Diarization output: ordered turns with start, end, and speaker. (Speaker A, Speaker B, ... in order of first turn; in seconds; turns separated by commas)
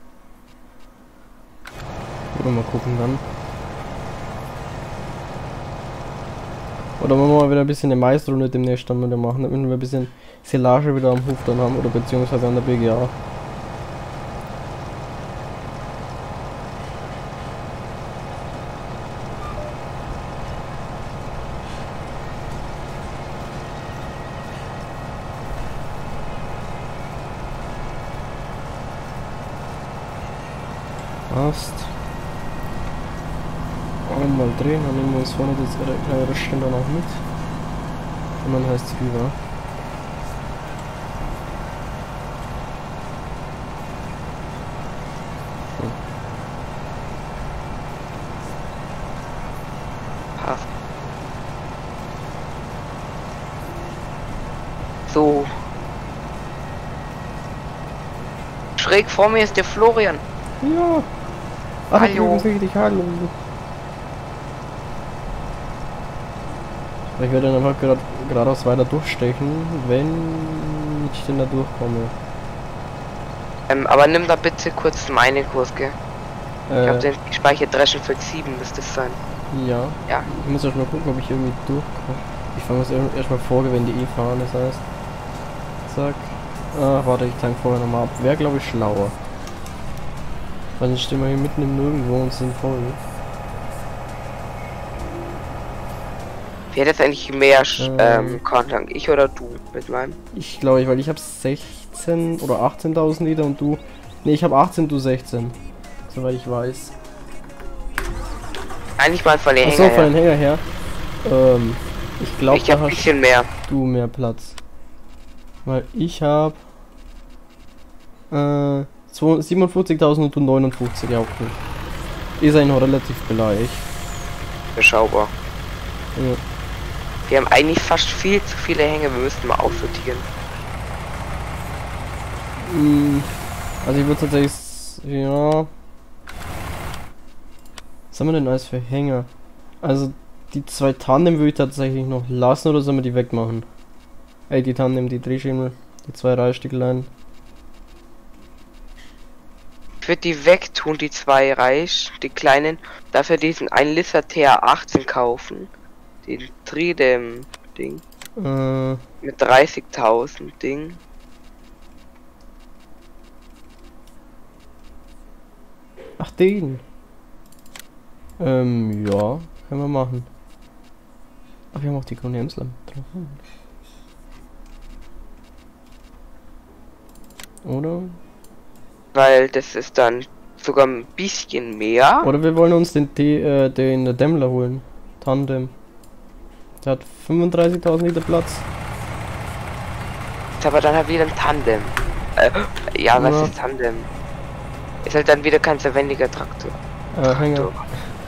Speaker A: 2.3-3.2, Speaker A: 7.0-13.1, Speaker A: 31.3-31.9, Speaker A: 34.0-37.2, Speaker A: 38.4-39.4, Speaker B: 50.4-50.7, Speaker B: 55.1-55.6, Speaker B: 58.8-60.2, Speaker A: 60.6-61.1, Speaker A: 61.9-63.3, Speaker B: 62.0-62.4, Speaker A: 67.2-72.1, Speaker B: 73.7-76.0, Speaker A: 76.7-77.1, Speaker B: 76.8-79.2, Speaker A: 79.5-84.8, Speaker A: 85.9-89.2, Speaker A: 90.8-93.0, Speaker B: 96.7-100.2, Speaker A: 97.8-98.4, Speaker A: 100.3-105.6, Speaker A: 106.1-106.9, Speaker B: 109.0-110.1, Speaker A: 109.6-110.6, Speaker A: 111.2-113.1, Speaker B: 112.5-113.5, Speaker A: 113.6-114.5, Speaker A: 115.7-116.6, Speaker A: 118.3-121.6, Speaker A: 122.4-123.9, Speaker B: 124.8-125.3, Speaker A: 126.2-126.4, Speaker B: 127.3-130.3, Speaker A: 132.6-135.7, Speaker A: 138.1-139.3, Speaker A: 139.8-143.7, Speaker A: 144.5-147.1, Speaker B: 150.0-155.7, Speaker B: 156.2-158.0, Speaker A: 158.4-159.0, Speaker B: 159.2-161.0, Speaker A: 166.2-166.8, Speaker A: 168.4-170.3, Speaker A: 171.7-173.4, Speaker A: 177.6-178.2, Speaker B: 179.1-182.3, Speaker A: 182.2-185.7, Speaker A: 186.8-188.7, Speaker B: 190.6-194.1, Speaker A: 193.2-193.5, Speaker B: 195.0-197.9, Speaker A: 197.1-198.1